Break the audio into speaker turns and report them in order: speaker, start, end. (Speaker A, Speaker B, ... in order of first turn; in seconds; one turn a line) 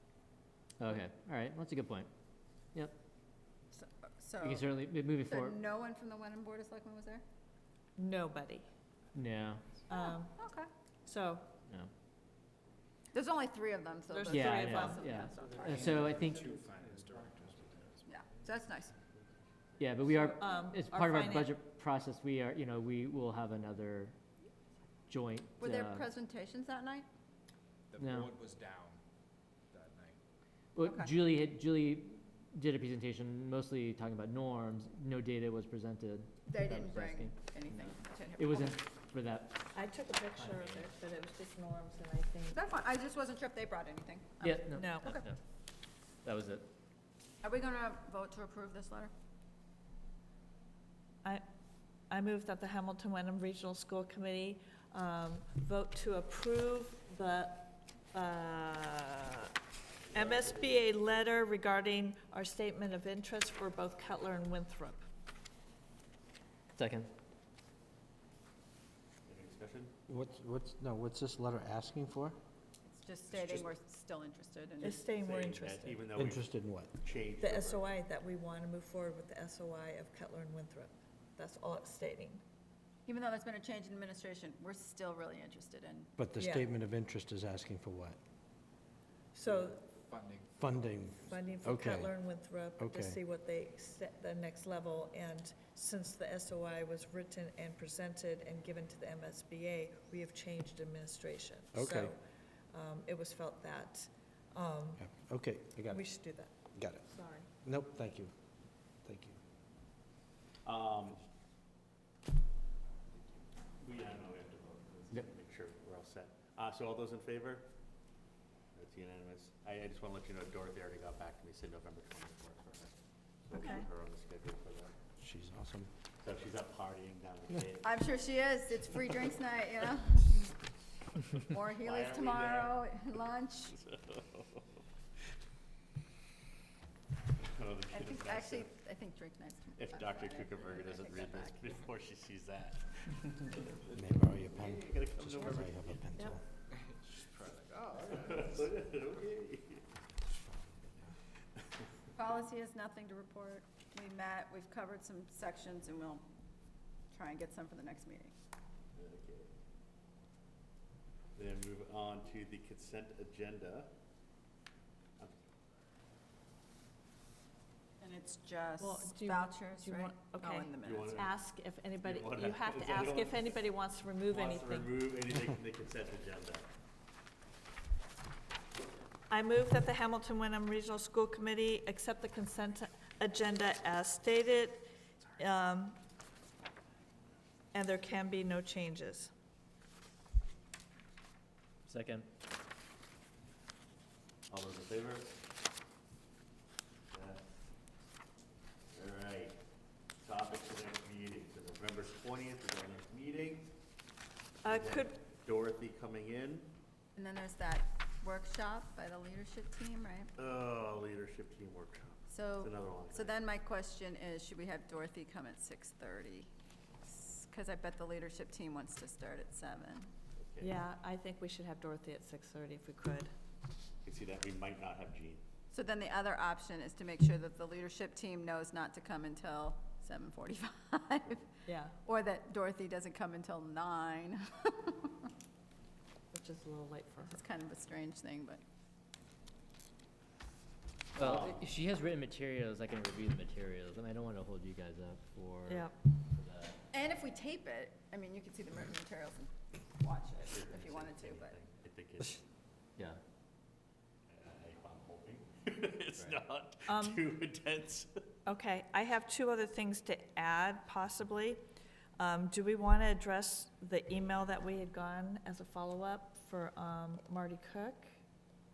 Speaker A: 0.8-2.1
Speaker B: 3.7-4.8
Speaker A: 4.4-5.6
Speaker B: 5.3-7.2
Speaker C: 8.0-8.7
Speaker A: 9.1-9.7
Speaker C: 9.9-10.4
Speaker B: 9.9-10.7
Speaker C: 11.1-11.5
Speaker B: 13.1-15.6
Speaker C: 14.1-15.3
Speaker A: 14.3-16.5
Speaker D: 15.6-18.2
Speaker B: 18.1-19.0
Speaker A: 19.8-24.2
Speaker C: 20.4-21.6
Speaker A: 25.1-26.1
Speaker B: 25.6-27.1
Speaker D: 27.9-29.0
Speaker A: 28.0-28.3
Speaker D: 29.7-30.2
Speaker A: 30.8-39.8
Speaker B: 30.8-31.1
Speaker B: 36.5-38.8
Speaker C: 39.7-42.6
Speaker A: 40.4-40.9
Speaker B: 42.5-45.3
Speaker A: 44.4-45.4
Speaker C: 44.8-45.2
Speaker A: 46.2-46.7
Speaker B: 47.4-49.1
Speaker C: 52.1-59.5
Speaker E: 60.1-60.8
Speaker C: 60.1-65.0
Speaker A: 66.7-67.1
Speaker E: 69.2-69.9
Speaker F: 70.1-72.4
Speaker B: 72.8-75.1
Speaker C: 74.8-76.0
Speaker E: 75.0-77.8
Speaker F: 76.2-76.9
Speaker C: 77.4-82.4
Speaker B: 83.1-86.1
Speaker F: 86.2-88.2
Speaker C: 86.4-86.7
Speaker C: 89.3-89.8
Speaker D: 89.4-91.4
Speaker F: 90.6-92.1
Speaker C: 91.2-102.2
Speaker F: 92.8-93.2
Speaker F: 101.7-102.1
Speaker C: 102.7-105.1
Speaker F: 105.0-106.1
Speaker C: 105.9-106.5
Speaker F: 106.7-107.1
Speaker C: 107.0-107.5
Speaker F: 107.6-108.3
Speaker F: 109.0-109.4
Speaker E: 110.7-111.2
Speaker E: 113.8-117.7
Speaker E: 118.8-125.0
Speaker C: 123.5-123.9
Speaker F: 125.2-125.9
Speaker E: 126.2-128.0
Speaker B: 127.8-130.6
Speaker E: 131.3-132.9
Speaker B: 131.4-133.8
Speaker E: 133.7-134.6
Speaker E: 137.4-138.7
Speaker B: 137.9-141.7
Speaker E: 139.8-146.0
Speaker F: 143.9-146.4
Speaker D: 146.8-148.5
Speaker E: 148.0-149.8
Speaker F: 150.3-151.1
Speaker B: 152.2-156.3
Speaker B: 157.1-158.3
Speaker E: 158.9-159.5
Speaker E: 161.4-163.9
Speaker B: 168.0-171.3
Speaker C: 168.8-174.9
Speaker E: 170.8-171.3
Speaker E: 172.0-173.5
Speaker E: 174.3-176.7
Speaker C: 179.3-186.0
Speaker C: 187.7-189.3
Speaker A: 191.9-192.3
Speaker E: 194.5-195.3
Speaker E: 197.1-197.4
Speaker E: 198.9-199.6
Speaker E: 200.2-203.7
Speaker C: 204.6-205.2
Speaker E: 204.7-206.7
Speaker B: 207.2-210.3
Speaker E: 210.4-213.4
Speaker B: 212.3-216.5
Speaker B: 217.1-220.1
Speaker E: 220.4-220.8
Speaker C: 220.6-223.3
Speaker E: 224.0-225.4
Speaker B: 225.7-235.3
Speaker C: 231.7-232.0
Speaker C: 236.3-237.4
Speaker B: 237.2-238.6
Speaker A: 241.2-246.8
Speaker E: 241.2-241.7
Speaker C: 245.7-245.9
Speaker B: 246.9-251.6
Speaker E: 250.4-252.4
Speaker E: 254.3-258.1
Speaker C: 256.9-257.2
Speaker C: 258.5-261.6
Speaker C: 262.2-268.2